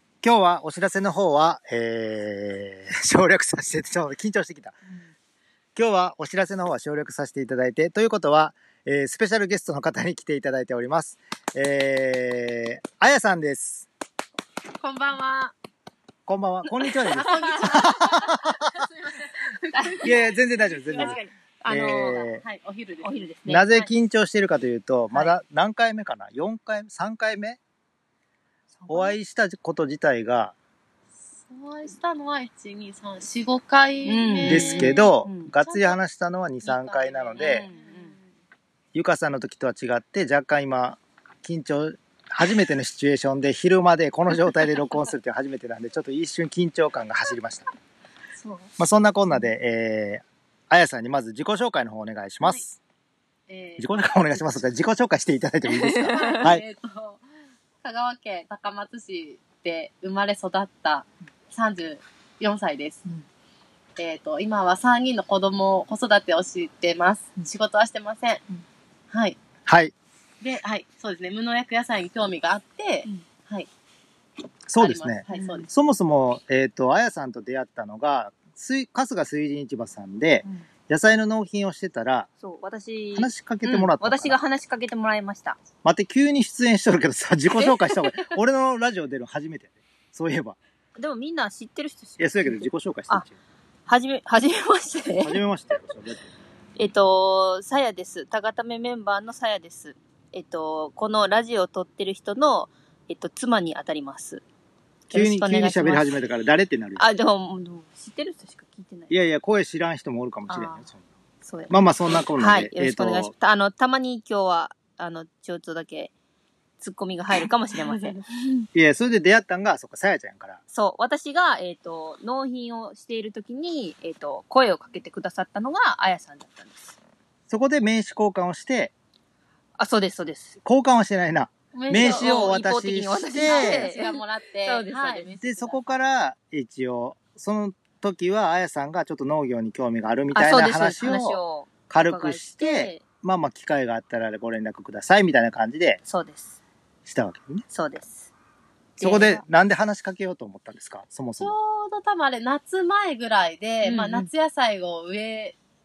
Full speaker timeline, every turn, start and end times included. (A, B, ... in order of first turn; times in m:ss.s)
0:00.2-0:04.7 A
0:05.8-0:13.9 A
0:14.8-0:15.5 B
0:16.3-0:18.9 A
0:16.7-0:18.3 C
0:17.1-0:21.2 B
0:19.7-0:20.1 C
0:20.0-0:22.4 A
0:21.0-0:22.3 C
0:22.4-0:23.3 B
0:23.0-0:23.9 C
0:23.5-0:27.6 A
0:28.8-0:29.2 C
0:28.9-0:30.5 A
0:31.4-0:35.1 B
0:34.0-0:35.5 C
0:34.4-0:37.7 A
0:35.6-0:36.0 B
0:36.6-0:38.1 B
0:37.4-0:38.1 C
0:38.9-0:47.7 A
0:48.4-0:48.7 C
0:48.8-0:52.8 A
0:53.5-0:54.2 B
0:53.8-0:56.6 A
0:55.7-0:56.4 C
0:56.1-0:57.2 B
0:57.8-1:03.0 B
1:04.0-1:08.4 B
1:09.1-1:09.4 B
1:09.6-1:09.9 A
1:10.4-1:13.7 B
1:14.7-1:22.3 A
1:14.8-1:15.7 B
1:15.3-1:15.7 C
1:22.4-1:25.6 C
1:23.1-1:24.4 A
1:25.8-1:30.6 A
1:27.5-1:28.4 C
1:31.0-1:33.2 C
1:32.2-1:33.4 A
1:33.9-1:35.4 C
1:35.2-1:36.3 A
1:36.8-1:44.4 C
1:45.1-1:47.0 A
1:45.1-1:46.2 C
1:47.0-1:49.1 C
1:49.1-1:51.0 A
1:50.5-1:50.8 C
1:51.4-1:51.8 C
1:51.7-1:53.3 A
1:52.4-1:56.1 C
1:56.8-1:58.7 C
1:57.8-1:58.2 B
1:58.7-2:00.6 A
2:00.7-2:06.9 C
2:07.5-2:08.9 A
2:09.8-2:10.6 C
2:10.6-2:13.9 A
2:11.7-2:12.6 B
2:11.9-2:15.3 C
2:13.4-2:15.9 B
2:15.4-2:21.4 A
2:20.3-2:23.0 C
2:21.9-2:26.0 A
2:26.1-2:26.6 C
2:27.0-2:27.6 A
2:27.7-2:28.3 C
2:29.0-2:29.4 C
2:29.0-2:31.6 A
2:31.4-2:35.6 B
2:33.8-2:34.3 C